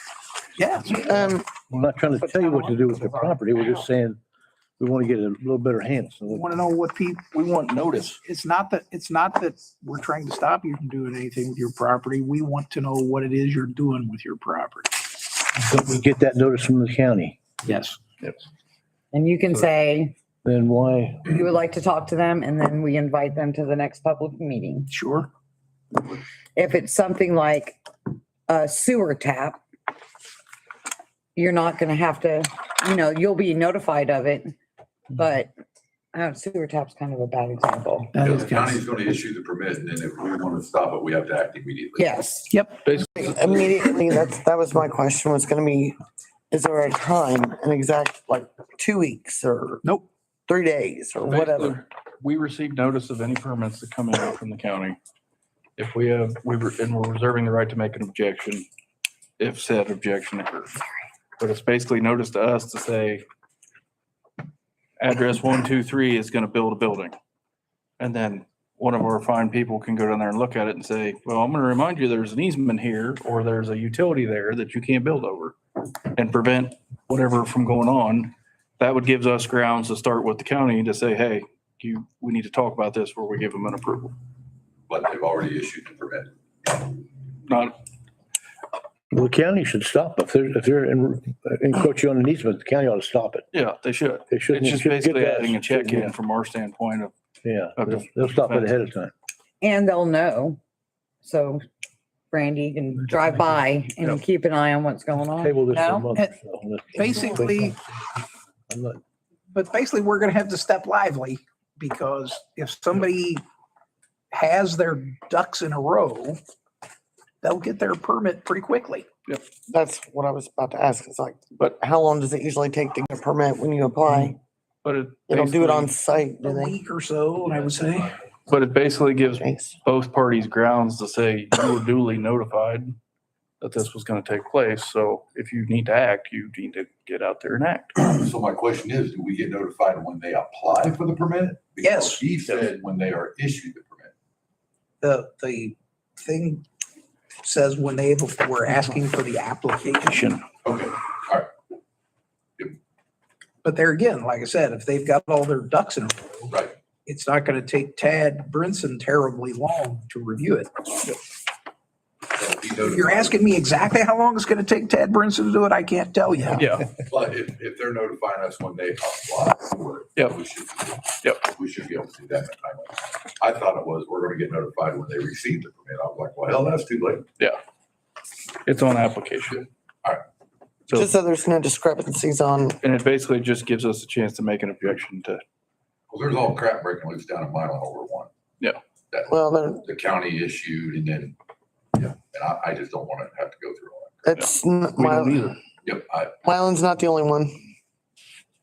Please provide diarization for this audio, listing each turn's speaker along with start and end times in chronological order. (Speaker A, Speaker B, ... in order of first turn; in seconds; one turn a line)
Speaker A: 0.6-1.4
Speaker B: 1.1-1.5
Speaker C: 1.2-4.2
Speaker D: 2.3-3.3
Speaker C: 4.8-6.5
Speaker A: 6.3-7.4
Speaker E: 7.4-8.2
Speaker A: 8.0-15.1
Speaker C: 15.6-17.4
Speaker A: 17.6-18.0
Speaker D: 19.1-20.1
Speaker C: 20.4-21.3
Speaker D: 21.2-24.9
Speaker A: 24.9-25.3
Speaker D: 26.6-27.8
Speaker D: 28.5-29.6
Speaker D: 31.4-34.5
Speaker D: 35.1-35.5
Speaker D: 36.1-38.1
Speaker A: 38.1-38.8
Speaker F: 38.2-42.1
Speaker D: 42.0-42.5
Speaker A: 42.5-42.8
Speaker E: 42.8-43.4
Speaker B: 43.2-46.0
Speaker B: 46.5-49.8
Speaker B: 50.5-51.8
Speaker E: 51.2-55.0
Speaker E: 55.8-58.7
Speaker E: 59.4-60.7
Speaker E: 61.4-63.2
Speaker E: 65.0-67.1
Speaker E: 68.0-75.5
Speaker E: 76.1-84.2
Speaker F: 84.9-87.0
Speaker E: 87.5-87.8
Speaker C: 89.1-93.5
Speaker E: 93.5-97.1
Speaker C: 94.3-96.1
Speaker C: 97.4-99.1
Speaker E: 97.8-98.8
Speaker D: 99.6-100.6
Speaker D: 101.2-101.6
Speaker D: 102.3-106.1
Speaker C: 105.4-107.8
Speaker A: 106.9-107.8
Speaker C: 108.7-109.0
Speaker A: 109.5-113.4
Speaker A: 114.3-116.4
Speaker A: 117.4-119.0
Speaker B: 119.7-124.4
Speaker E: 124.8-125.9
Speaker B: 125.3-126.8
Speaker A: 126.4-128.2
Speaker E: 128.5-132.9
Speaker B: 129.4-129.8
Speaker E: 133.6-138.0
Speaker F: 138.0-144.1
Speaker A: 141.8-142.2
Speaker A: 145.0-146.7
Speaker A: 147.4-150.3
Speaker E: 150.1-150.4
Speaker F: 150.6-151.5
Speaker A: 153.6-156.5
Speaker A: 157.1-160.7
Speaker F: 162.3-163.4
Speaker A: 162.8-166.8
Speaker E: 166.5-166.9
Speaker F: 167.0-177.3
Speaker E: 178.7-179.7
Speaker B: 180.9-182.8
Speaker E: 182.8-185.4
Speaker F: 186.1-188.3
Speaker F: 189.1-191.3
Speaker B: 189.3-189.9
Speaker F: 191.9-194.2
Speaker B: 194.2-195.5
Speaker E: 194.3-195.6
Speaker F: 195.8-196.4
Speaker B: 196.4-197.7